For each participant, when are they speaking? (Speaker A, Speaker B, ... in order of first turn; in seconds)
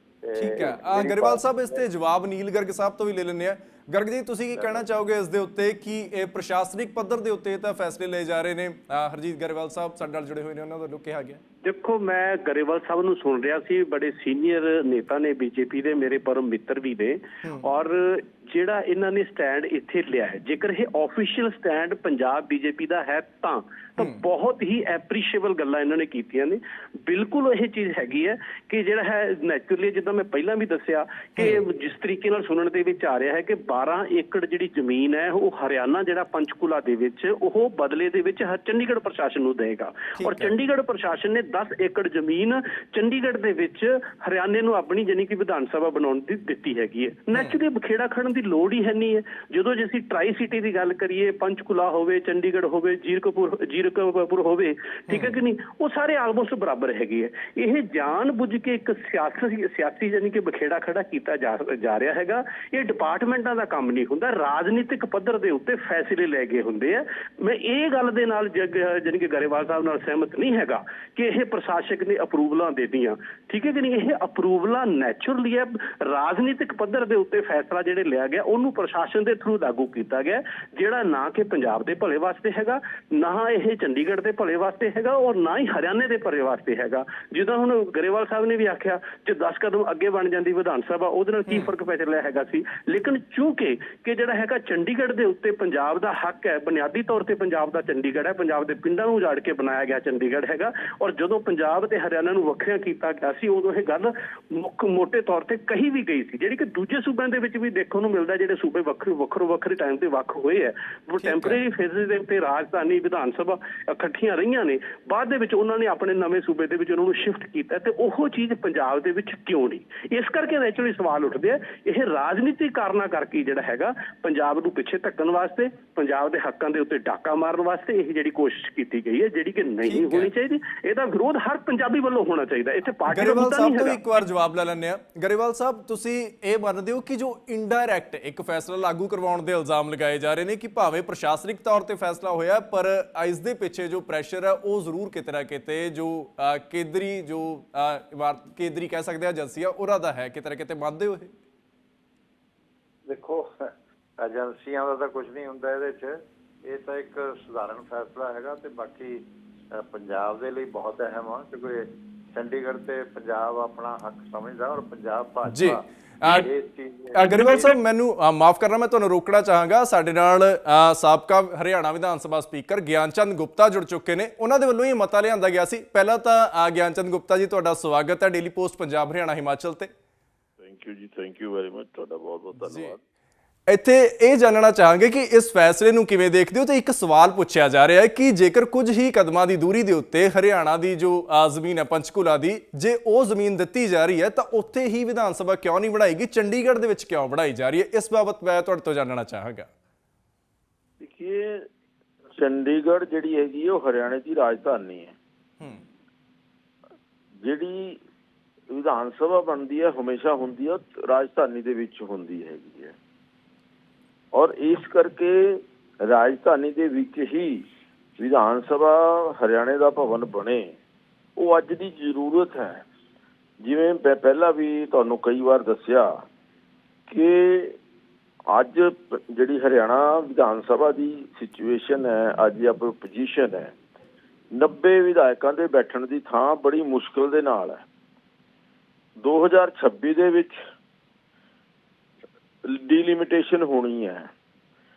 Speaker A: 0.2-1.8, 4.5-4.9, 153.1-153.7, 154.2-159.2, 159.8-167.7
Speaker B: 0.3-11.4, 40.2-40.5, 55.1-55.4, 111.2-111.6, 129.9-130.3, 133.1-151.3, 165.5-166.5, 167.2-179.9, 182.6-183.0, 183.7-199.7
Speaker C: 11.6-134.0
Speaker D: 180.6-183.0, 201.0-201.7, 202.3-205.2, 207.4-208.0, 208.7-212.9, 214.3-217.7, 218.2-220.8, 221.4-222.8, 223.6-226.1, 227.1-227.8, 228.5-233.8, 234.6-237.8, 239.2-240.6, 242.7-244.3